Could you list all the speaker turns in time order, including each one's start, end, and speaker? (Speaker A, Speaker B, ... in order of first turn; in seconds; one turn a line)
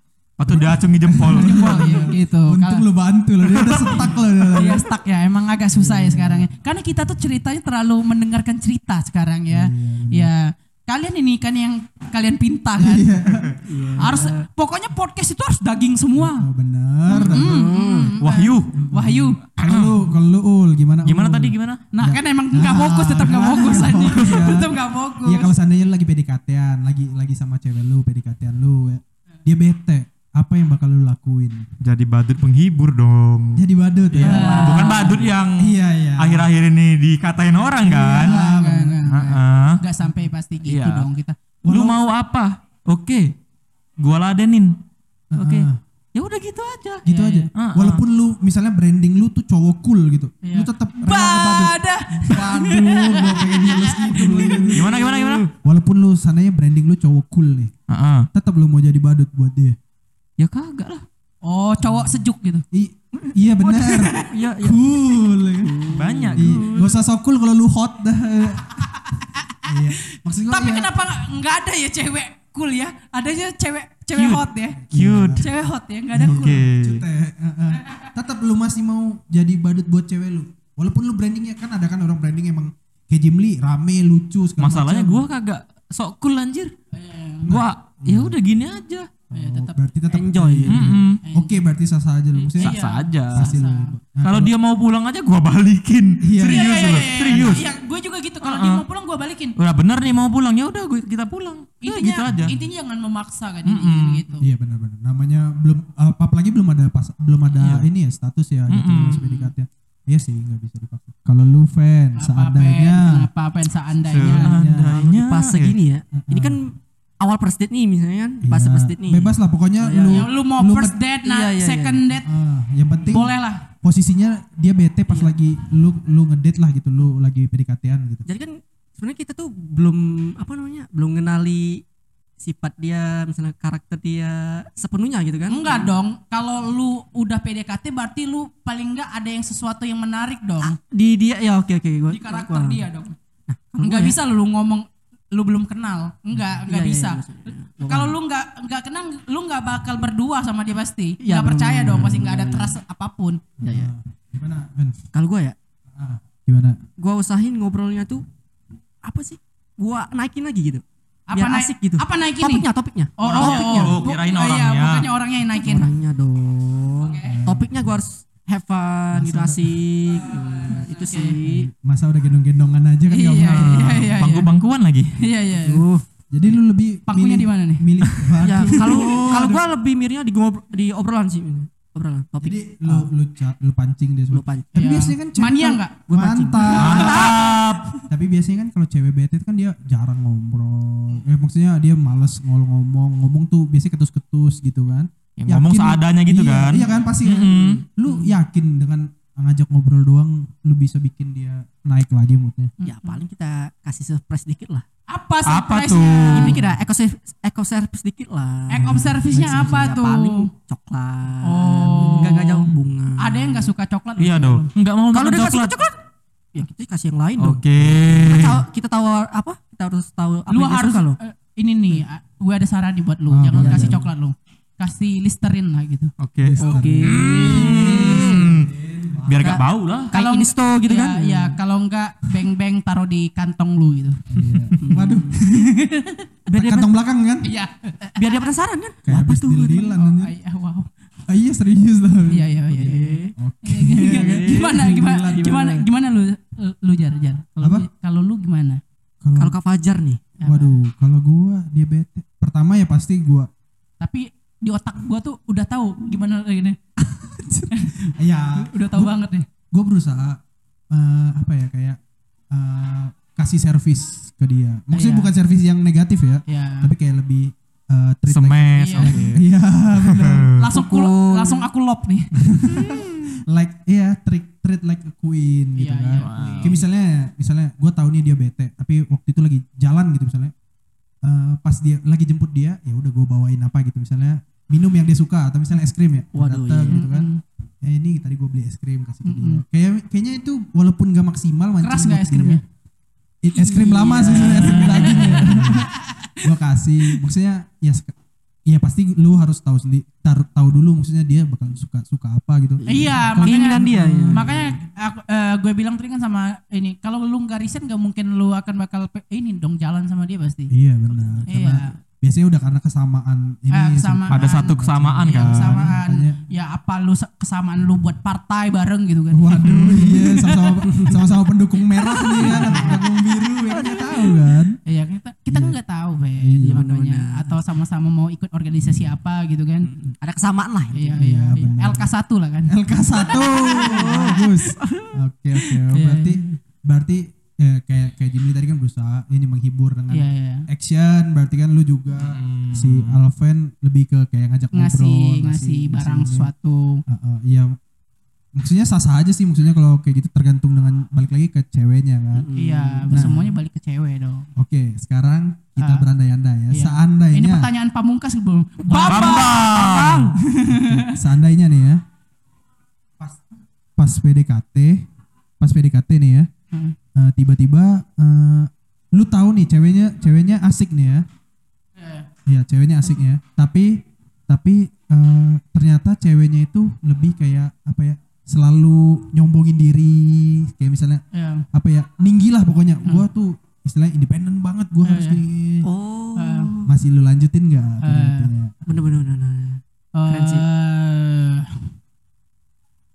Speaker A: 0.4-2.1
Speaker B: 0.5-4.8
Speaker C: 1.3-2.9
Speaker C: 3.8-13.1
Speaker B: 5.8-6.5
Speaker B: 9.5-10.3
Speaker B: 12.8-13.6
Speaker D: 13.6-14.5
Speaker C: 14.0-16.5
Speaker B: 16.2-17.8
Speaker C: 17.1-19.4
Speaker D: 17.1-18.2
Speaker A: 18.2-18.7
Speaker B: 18.7-31.7
Speaker A: 19.6-20.0
Speaker A: 21.0-21.8
Speaker C: 21.9-25.5
Speaker A: 31.8-38.4
Speaker B: 33.5-36.5
Speaker D: 34.2-35.3
Speaker C: 34.2-35.1
Speaker B: 37.8-39.0
Speaker C: 38.1-41.4
Speaker A: 39.0-39.8
Speaker A: 40.6-41.0
Speaker B: 41.6-42.0
Speaker A: 41.7-43.3
Speaker A: 44.0-44.8
Speaker B: 45.3-45.8
Speaker A: 45.3-47.0
Speaker B: 47.0-55.0
Speaker C: 47.0-47.5
Speaker A: 47.5-48.0
Speaker C: 50.4-54.7
Speaker D: 54.1-55.5
Speaker A: 54.7-55.5
Speaker B: 55.6-57.7
Speaker A: 57.9-58.3
Speaker B: 58.3-59.8
Speaker A: 60.4-61.0
Speaker C: 61.4-62.6
Speaker B: 61.8-65.8
Speaker D: 63.2-64.8
Speaker D: 65.6-66.9
Speaker A: 65.9-66.8
Speaker B: 66.3-68.9
Speaker C: 69.0-69.7
Speaker B: 69.6-70.9
Speaker C: 70.5-74.8
Speaker A: 74.1-75.5
Speaker B: 74.8-75.5
Speaker C: 75.4-76.6
Speaker B: 76.1-85.2
Speaker A: 76.2-77.0
Speaker A: 84.6-86.7
Speaker C: 86.9-87.5
Speaker B: 87.4-88.4
Speaker A: 87.5-89.1
Speaker B: 89.3-94.5
Speaker C: 89.3-89.8
Speaker D: 90.1-91.0
Speaker A: 90.7-91.2
Speaker C: 91.2-91.6
Speaker C: 92.4-93.9
Speaker A: 92.6-93.6
Speaker A: 94.2-97.6
Speaker B: 96.2-97.6
Speaker C: 96.4-99.5
Speaker A: 98.4-98.8
Speaker A: 99.6-102.5
Speaker C: 101.8-104.5
Speaker A: 103.6-104.2
Speaker B: 104.4-113.3
Speaker A: 107.6-107.9
Speaker A: 108.7-109.4
Speaker C: 112.2-114.5
Speaker A: 114.0-115.8
Speaker B: 114.2-115.0
Speaker D: 114.9-120.3
Speaker B: 116.1-116.6
Speaker B: 118.4-121.0
Speaker C: 120.1-122.2
Speaker D: 121.2-122.0
Speaker B: 122.2-128.2
Speaker C: 123.1-123.7
Speaker D: 125.1-125.3
Speaker D: 128.2-131.8
Speaker D: 132.4-135.9
Speaker C: 135.5-140.8
Speaker D: 140.6-142.8
Speaker C: 142.1-143.2
Speaker D: 143.5-144.2
Speaker C: 143.8-147.2
Speaker D: 146.7-148.2
Speaker C: 147.9-153.4
Speaker D: 151.2-152.8
Speaker B: 151.8-152.2
Speaker B: 153.6-155.0
Speaker D: 153.6-153.9
Speaker D: 155.1-155.6
Speaker B: 155.9-156.8
Speaker D: 157.0-158.2
Speaker D: 159.0-164.0
Speaker C: 161.3-165.9
Speaker A: 163.2-165.1
Speaker D: 165.5-171.7
Speaker C: 167.0-167.4
Speaker B: 167.2-167.7
Speaker B: 169.1-169.8
Speaker C: 170.1-171.4
Speaker B: 171.4-174.2
Speaker C: 173.1-174.5
Speaker A: 173.5-175.2
Speaker C: 175.2-175.8
Speaker D: 175.5-176.0
Speaker B: 176.3-179.6
Speaker C: 177.1-177.8
Speaker D: 178.4-183.1
Speaker C: 178.7-179.3
Speaker B: 182.4-187.3
Speaker D: 184.3-184.7
Speaker C: 184.8-187.2
Speaker D: 186.1-188.0
Speaker A: 186.8-187.9
Speaker B: 188.1-202.7
Speaker A: 195.4-197.8
Speaker C: 202.8-203.2
Speaker D: 202.8-204.8
Speaker C: 205.1-206.6
Speaker A: 205.4-206.6
Speaker D: 206.3-213.7
Speaker C: 208.7-210.5
Speaker B: 208.8-209.9
Speaker C: 211.4-214.7
Speaker A: 214.2-215.8
Speaker D: 215.1-216.0
Speaker D: 216.5-221.2
Speaker A: 217.4-218.6
Speaker C: 220.5-226.1
Speaker B: 223.3-224.0
Speaker D: 223.5-224.0
Speaker A: 226.2-228.7
Speaker B: 226.4-229.6
Speaker D: 226.6-228.5
Speaker A: 229.2-230.1
Speaker D: 229.4-231.6
Speaker C: 230.1-234.2
Speaker B: 234.3-235.7
Speaker D: 234.8-235.4
Speaker C: 235.3-236.3
Speaker D: 236.5-236.9
Speaker B: 236.5-237.5
Speaker C: 237.4-238.5
Speaker D: 238.2-239.9
Speaker B: 239.0-240.3
Speaker C: 239.6-240.9
Speaker B: 241.3-245.7
Speaker C: 242.3-248.8
Speaker D: 242.7-243.3
Speaker D: 243.9-245.8
Speaker B: 247.6-247.9
Speaker B: 249.2-249.6
Speaker D: 249.4-250.2
Speaker C: 250.4-250.8
Speaker B: 250.4-253.5
Speaker C: 254.0-256.8
Speaker B: 257.0-259.1
Speaker C: 257.7-259.4
Speaker B: 259.7-260.4
Speaker B: 260.9-262.0
Speaker B: 262.5-270.6
Speaker C: 264.9-265.3
Speaker C: 266.5-266.9
Speaker A: 268.3-269.4
Speaker C: 268.8-269.3
Speaker A: 269.9-270.6
Speaker C: 270.6-272.4
Speaker D: 270.7-271.7
Speaker B: 272.4-280.5
Speaker A: 272.7-273.0
Speaker C: 275.8-276.3
Speaker A: 276.2-276.8
Speaker D: 276.4-276.7
Speaker B: 281.2-287.3
Speaker D: 286.3-287.0
Speaker C: 286.9-287.4
Speaker B: 287.8-292.6
Speaker C: 289.2-289.6
Speaker C: 291.8-292.6
Speaker B: 293.4-295.9
Speaker D: 293.6-295.7
Speaker C: 293.8-296.5
Speaker B: 296.4-298.1
Speaker B: 298.7-304.6
Speaker D: 302.8-304.8
Speaker C: 302.8-310.7
Speaker B: 310.7-316.4
Speaker C: 311.4-311.9
Speaker C: 313.7-320.3
Speaker A: 314.3-315.9
Speaker B: 319.3-324.8
Speaker D: 319.9-321.2
Speaker D: 322.1-323.0
Speaker C: 322.2-323.0
Speaker D: 323.6-324.4
Speaker C: 324.8-329.9
Speaker B: 325.5-325.8
Speaker B: 326.3-326.9
Speaker D: 326.6-327.6
Speaker D: 329.8-331.2
Speaker C: 330.9-332.7
Speaker B: 331.1-332.1
Speaker B: 332.7-346.5
Speaker D: 333.2-335.2
Speaker C: 333.8-334.4
Speaker C: 335.9-336.6
Speaker C: 340.1-340.7
Speaker A: 342.2-343.2
Speaker C: 344.7-347.0
Speaker B: 347.1-347.8
Speaker B: 348.5-352.5
Speaker D: 352.3-353.4
Speaker C: 352.5-354.5
Speaker B: 353.1-353.6
Speaker B: 354.6-357.7
Speaker C: 355.8-356.1
Speaker C: 356.7-361.1
Speaker A: 358.9-360.3
Speaker D: 358.9-360.4
Speaker B: 360.6-362.0
Speaker B: 364.0-365.0
Speaker B: 365.6-366.5
Speaker C: 366.7-366.9
Speaker B: 367.1-371.2
Speaker C: 372.0-372.3
Speaker B: 372.4-385.9
Speaker C: 381.3-381.6
Speaker C: 385.0-385.4
Speaker D: 385.8-386.9
Speaker C: 386.4-386.7
Speaker B: 386.8-388.7
Speaker C: 388.0-388.5
Speaker D: 388.9-390.6
Speaker C: 390.1-391.8